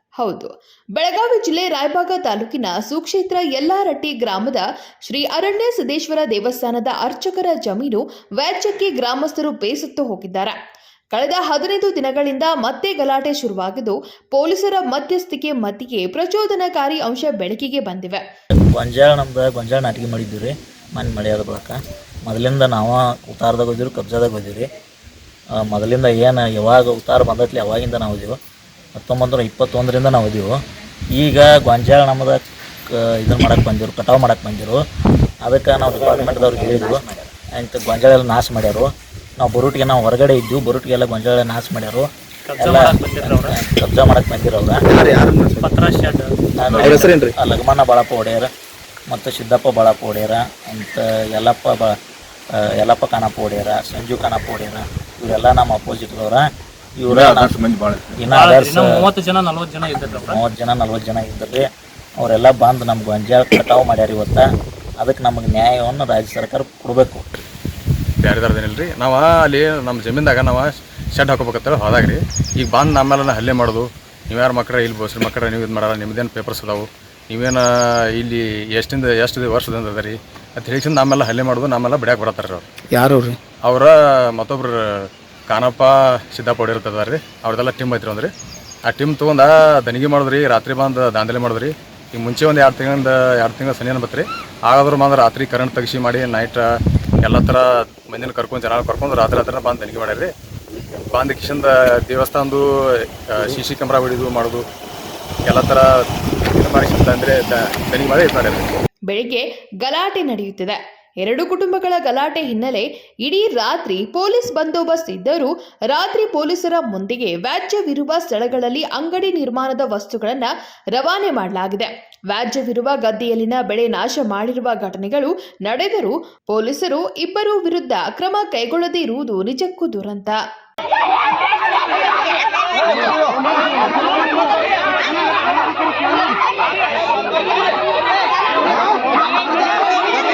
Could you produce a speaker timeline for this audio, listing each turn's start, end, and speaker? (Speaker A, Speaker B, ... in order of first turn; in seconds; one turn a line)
Speaker A: 0.2-10.6
Speaker A: 11.1-18.2
Speaker B: 18.6-24.7
Speaker B: 25.6-28.4
Speaker B: 29.0-30.5
Speaker B: 31.1-34.8
Speaker B: 35.4-37.0
Speaker C: 36.0-37.0
Speaker B: 37.6-42.1
Speaker D: 42.5-43.6
Speaker B: 42.6-44.8
Speaker C: 44.9-45.7
Speaker D: 45.6-47.0
Speaker B: 46.6-48.5
Speaker C: 46.7-47.3
Speaker B: 49.1-52.0
Speaker B: 52.6-56.5
Speaker B: 57.0-57.6
Speaker C: 57.1-58.2
Speaker B: 58.1-59.0
Speaker D: 58.3-60.4
Speaker B: 60.1-61.7
Speaker B: 62.2-64.5
Speaker B: 65.0-67.2
Speaker E: 68.2-82.7
Speaker C: 82.9-83.4
Speaker E: 83.7-88.3
Speaker E: 88.9-96.7
Speaker E: 97.2-100.3
Speaker E: 101.1-102.7
Speaker E: 103.3-104.6
Speaker E: 105.5-105.9
Speaker E: 106.5-108.7
Speaker A: 109.1-130.4